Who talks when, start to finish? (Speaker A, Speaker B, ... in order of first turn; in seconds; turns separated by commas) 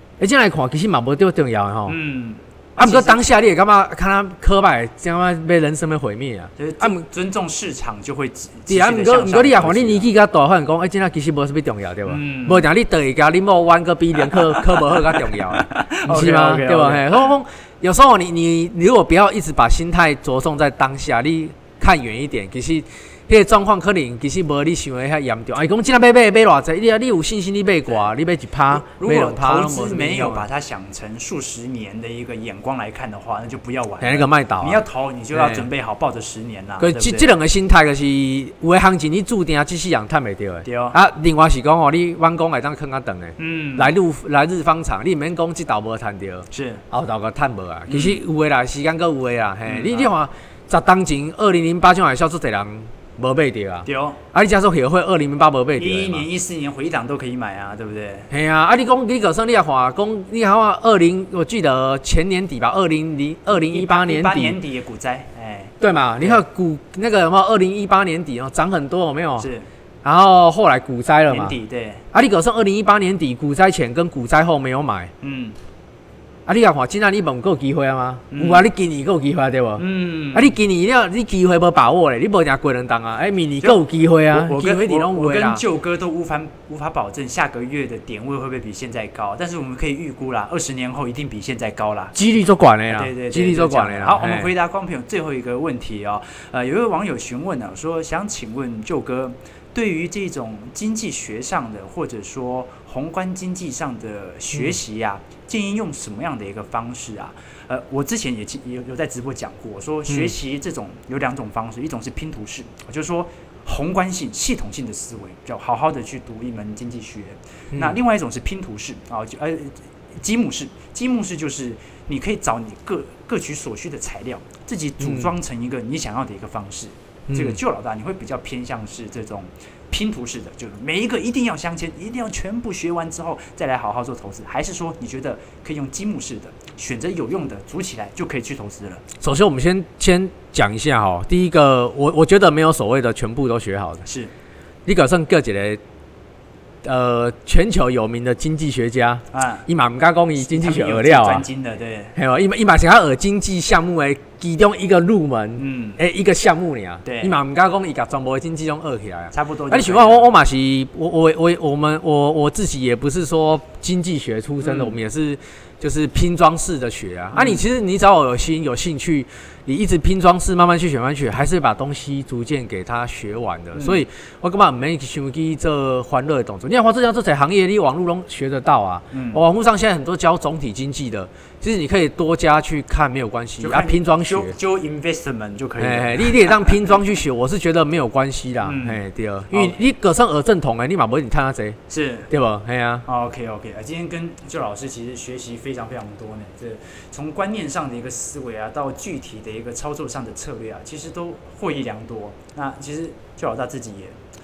Speaker A: 0.2-1.9, Speaker B: 1.9-3.2, Speaker A: 2.8-7.0, Speaker B: 6.6-10.1, Speaker A: 8.7-30.4, Speaker B: 12.1-12.7, Speaker B: 14.3-17.2, Speaker B: 28.7-37.3, Speaker A: 34.0-35.7, Speaker A: 36.8-56.2, Speaker B: 40.6-41.0, Speaker B: 43.4-43.9, Speaker B: 46.5-46.8, Speaker B: 47.9-48.2, Speaker B: 49.6-50.1, Speaker B: 53.8-54.2, Speaker B: 55.8-58.3, Speaker A: 58.3-64.6, Speaker B: 63.5-66.4, Speaker A: 65.8-69.5, Speaker B: 69.4-69.7, Speaker A: 70.0-71.5, Speaker B: 71.3-72.0, Speaker A: 72.1-75.1, Speaker B: 75.2-75.5, Speaker A: 76.5-85.6, Speaker B: 78.3-78.7, Speaker B: 79.8-80.5, Speaker B: 83.6-92.2, Speaker A: 92.1-94.5, Speaker B: 92.9-139.0, Speaker A: 110.1-110.3, Speaker A: 117.7-118.0, Speaker A: 125.0-125.3, Speaker A: 127.3-127.6, Speaker A: 139.2-144.0, Speaker B: 144.0-144.3, Speaker A: 144.8-145.8, Speaker A: 146.8-151.4, Speaker B: 149.3-149.7, Speaker B: 150.4-152.1, Speaker A: 152.1-184.5, Speaker B: 155.6-156.0, Speaker B: 157.0-157.3, Speaker B: 159.3-160.3, Speaker B: 164.6-165.0, Speaker B: 167.3-167.6, Speaker B: 173.7-174.0, Speaker B: 179.1-179.4, Speaker B: 183.6-186.9, Speaker A: 185.8-191.8, Speaker B: 188.6-189.0, Speaker B: 189.5-189.8, Speaker B: 191.9-192.3, Speaker A: 192.3-193.0, Speaker B: 193.1-204.2